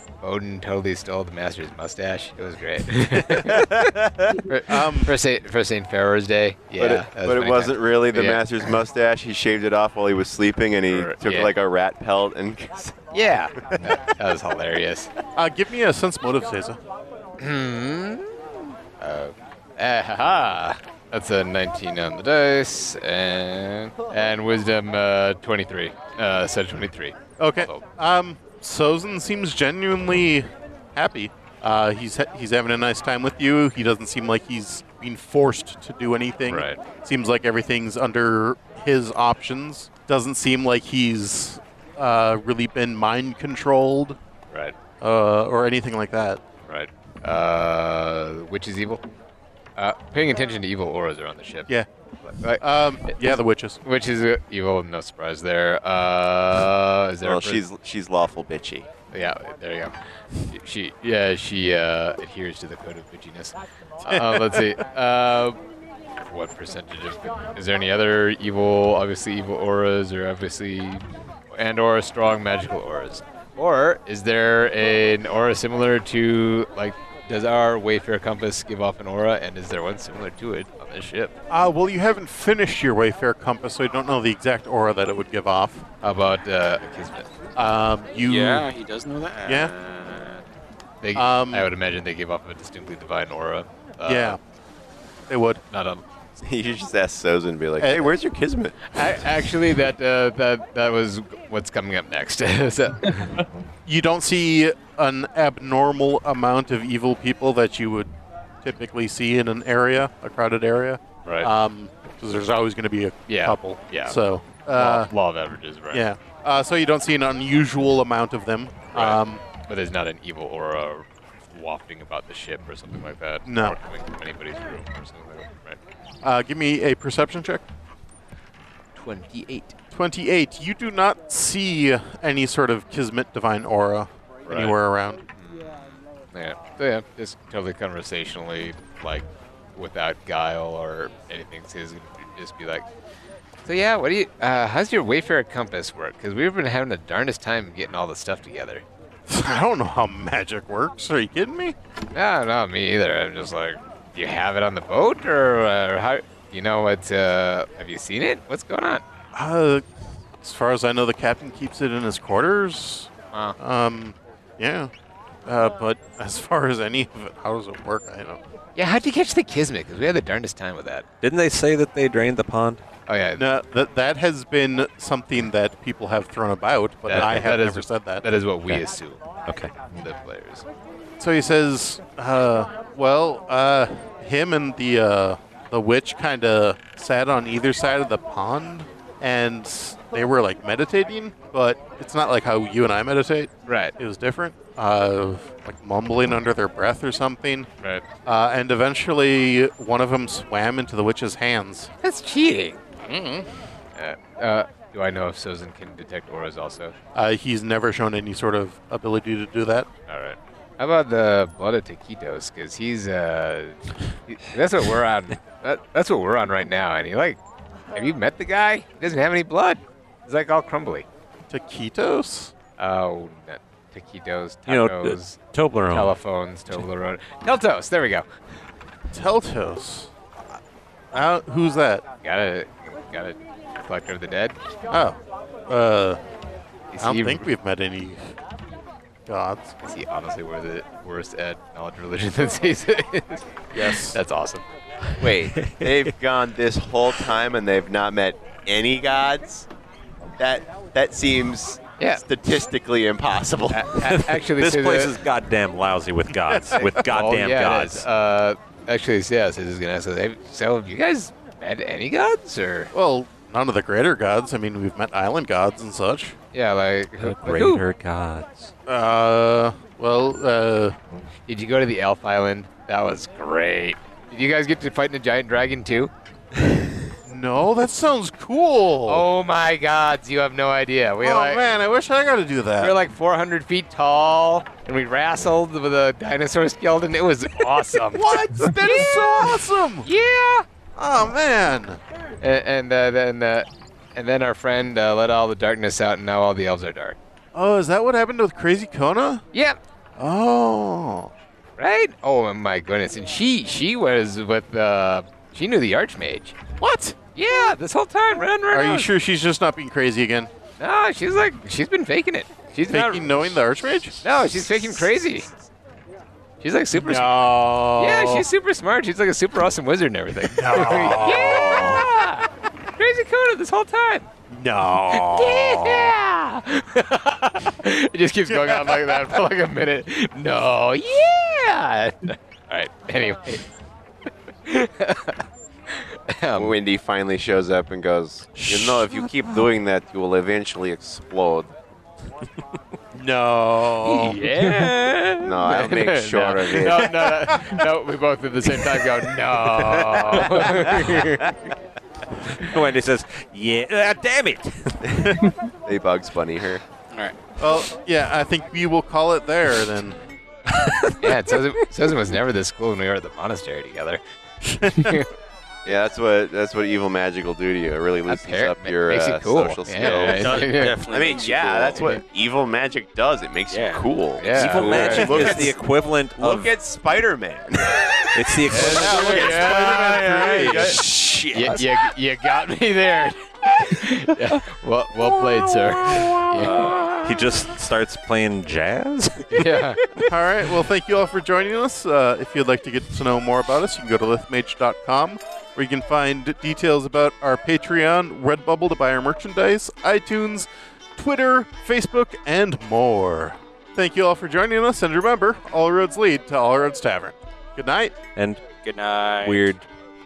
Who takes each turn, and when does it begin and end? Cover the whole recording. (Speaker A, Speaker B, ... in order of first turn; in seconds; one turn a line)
Speaker A: 0.2-8.7
Speaker B: 3.5-4.4
Speaker C: 4.7-5.1
Speaker B: 6.8-13.1
Speaker A: 10.9-11.5
Speaker A: 13.1-15.1
Speaker C: 15.3-16.8
Speaker A: 17.4-27.9
Speaker C: 27.4-44.2
Speaker A: 36.5-36.8
Speaker C: 45.0-46.4
Speaker A: 46.7-49.0
Speaker A: 49.8-51.7
Speaker A: 52.2-57.6
Speaker C: 52.6-53.8
Speaker B: 57.2-58.9
Speaker A: 59.1-59.9
Speaker A: 60.5-65.6
Speaker C: 64.0-64.7
Speaker A: 66.2-81.3
Speaker C: 81.5-85.8
Speaker A: 86.0-87.4
Speaker C: 87.5-88.7
Speaker D: 88.2-90.4
Speaker A: 91.0-94.4
Speaker C: 91.1-91.7
Speaker C: 94.0-94.4
Speaker C: 95.3-95.6
Speaker A: 95.7-96.0
Speaker B: 96.4-98.8
Speaker C: 97.8-98.1
Speaker A: 98.9-103.4
Speaker C: 103.8-108.1
Speaker C: 108.6-115.1
Speaker A: 111.2-111.5
Speaker A: 113.3-114.2
Speaker A: 114.7-116.0
Speaker C: 115.9-119.4
Speaker A: 118.9-125.8
Speaker C: 123.4-123.8
Speaker C: 126.2-127.7
Speaker A: 128.9-129.7
Speaker C: 129.9-135.2
Speaker A: 134.5-134.8
Speaker A: 135.4-142.9
Speaker A: 143.6-148.8
Speaker C: 149.3-151.8
Speaker A: 152.1-159.0
Speaker C: 159.3-159.8
Speaker C: 160.4-164.9
Speaker C: 165.4-168.4
Speaker A: 168.8-171.0
Speaker E: 171.2-172.8
Speaker A: 173.1-173.4
Speaker C: 173.3-178.2
Speaker A: 177.1-179.2
Speaker E: 179.4-179.7
Speaker A: 179.9-180.6
Speaker C: 181.2-197.7
Speaker A: 193.7-193.9
Speaker A: 197.8-198.1
Speaker C: 198.2-201.9
Speaker A: 202.0-206.9
Speaker C: 207.1-209.9
Speaker A: 210.1-217.4
Speaker A: 217.9-221.1
Speaker C: 221.5-222.6
Speaker A: 222.8-225.4
Speaker E: 224.7-226.1
Speaker A: 225.9-228.2
Speaker C: 229.1-230.6
Speaker C: 231.1-232.0
Speaker A: 232.2-234.6
Speaker C: 234.9-236.2
Speaker A: 236.9-237.4
Speaker C: 237.0-238.4
Speaker C: 239.3-239.7
Speaker A: 239.8-245.1
Speaker C: 243.7-244.2
Speaker B: 245.2-249.7
Speaker E: 245.6-246.1
Speaker B: 250.4-254.0
Speaker A: 252.0-252.2
Speaker A: 253.7-255.2
Speaker E: 254.0-258.1
Speaker C: 256.3-256.9
Speaker A: 256.7-262.9
Speaker C: 262.9-266.4
Speaker A: 266.5-267.8
Speaker E: 267.2-268.7
Speaker C: 268.9-270.9
Speaker A: 271.5-276.1
Speaker C: 277.2-279.2
Speaker A: 279.1-281.6
Speaker C: 281.2-282.9
Speaker A: 282.8-290.6
Speaker C: 288.1-290.1
Speaker C: 290.9-292.0
Speaker A: 292.4-297.2
Speaker C: 297.5-299.4
Speaker A: 299.5-299.8
Speaker C: 300.2-301.3
Speaker A: 301.8-309.1
Speaker C: 306.8-307.2
Speaker C: 308.7-310.5
Speaker A: 310.8-313.6
Speaker C: 312.9-315.1
Speaker A: 314.2-315.5
Speaker A: 316.6-317.4
Speaker C: 316.9-318.4
Speaker A: 318.0-324.3
Speaker C: 320.4-322.1
Speaker C: 324.5-326.1
Speaker A: 325.1-333.6
Speaker C: 328.5-329.4
Speaker A: 334.6-336.8
Speaker B: 336.5-341.7
Speaker E: 338.6-339.5
Speaker C: 343.1-344.4
Speaker A: 344.0-351.7
Speaker B: 345.4-347.3
Speaker C: 346.8-347.8
Speaker C: 348.7-349.2
Speaker E: 352.6-355.4
Speaker B: 355.0-356.8
Speaker D: 357.1-357.4
Speaker C: 357.6-360.2
Speaker A: 361.2-364.2
Speaker C: 364.6-365.2
Speaker A: 364.9-365.3
Speaker B: 365.8-375.8
Speaker A: 368.3-371.0
Speaker D: 370.0-372.1
Speaker E: 370.0-370.6
Speaker A: 371.9-372.2
Speaker D: 373.7-375.6
Speaker A: 374.4-375.7
Speaker E: 374.5-376.7
Speaker B: 376.4-381.0
Speaker E: 378.3-379.5
Speaker A: 378.7-380.9
Speaker C: 378.7-380.9
Speaker D: 380.7-382.0
Speaker A: 381.5-387.4
Speaker D: 386.6-387.0
Speaker E: 387.2-389.9
Speaker A: 389.5-390.3
Speaker C: 390.3-408.1
Speaker E: 408.4-408.6
Speaker D: 408.8-409.7
Speaker E: 409.4-409.8